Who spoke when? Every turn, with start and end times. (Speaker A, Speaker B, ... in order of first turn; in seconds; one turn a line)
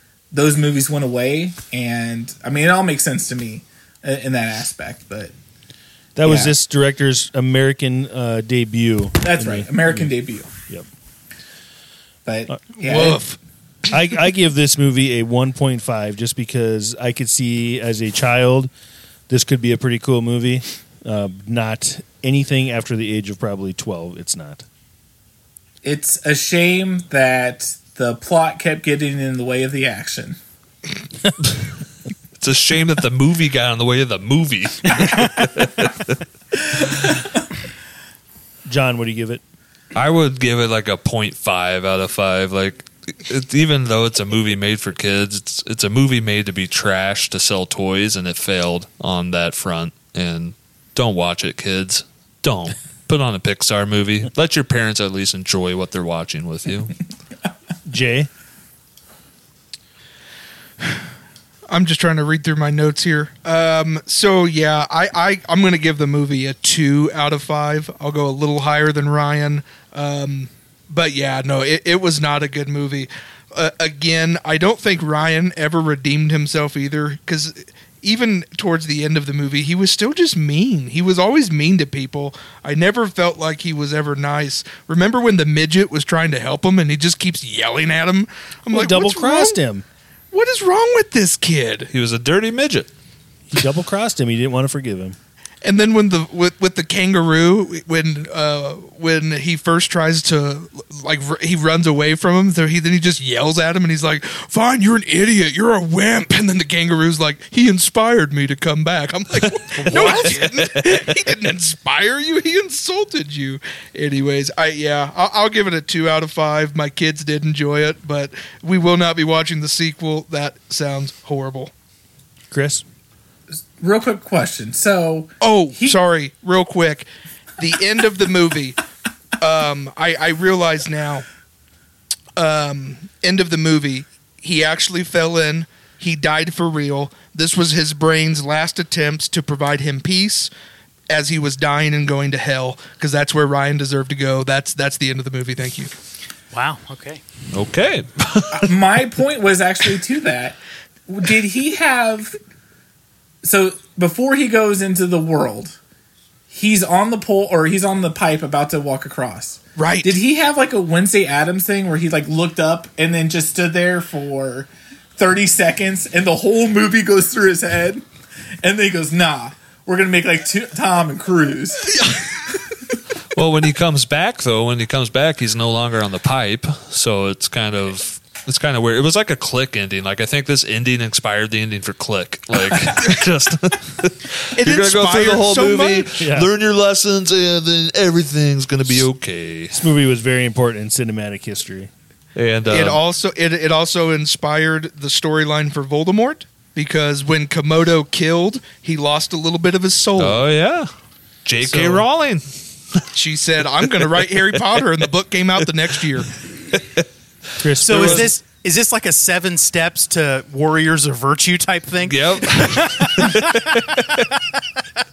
Speaker A: 0.3-5.3
Speaker B: 6.2-10.1
Speaker A: 6.2-6.5
Speaker A: 9.2-10.5
Speaker A: 12.3-13.2
Speaker C: 12.8-13.4
Speaker B: 13.9-18.7
Speaker B: 19.3-24.6
Speaker A: 25.8-30.4
Speaker D: 32.4-36.2
Speaker B: 38.7-39.4
Speaker D: 40.0-57.0
Speaker B: 57.9-58.3
Speaker C: 61.7-89.6
Speaker B: 88.7-89.8
Speaker C: 90.3-91.9
Speaker D: 91.9-92.9
Speaker B: 93.5-95.2
Speaker C: 95.6-121.7
Speaker E: 109.8-110.5
Speaker B: 122.5-122.8
Speaker A: 123.8-126.0
Speaker C: 125.4-127.1
Speaker C: 127.6-128.8
Speaker C: 129.4-131.3
Speaker C: 132.4-140.5
Speaker C: 141.1-145.9
Speaker E: 146.5-147.2
Speaker D: 147.5-148.7
Speaker A: 148.6-150.6
Speaker A: 151.1-152.4
Speaker A: 153.4-155.8
Speaker A: 156.5-168.0
Speaker C: 159.8-160.2
Speaker A: 168.6-172.2
Speaker D: 173.3-189.8
Speaker C: 184.6-186.1
Speaker B: 186.2-186.5
Speaker B: 189.7-191.9
Speaker D: 192.4-193.0
Speaker C: 192.7-200.4
Speaker D: 200.2-200.9
Speaker D: 201.4-203.0
Speaker C: 201.6-202.1
Speaker C: 203.1-206.3
Speaker D: 206.7-207.1
Speaker B: 207.6-208.3
Speaker D: 207.8-208.3
Speaker E: 207.8-214.2
Speaker D: 212.0-214.3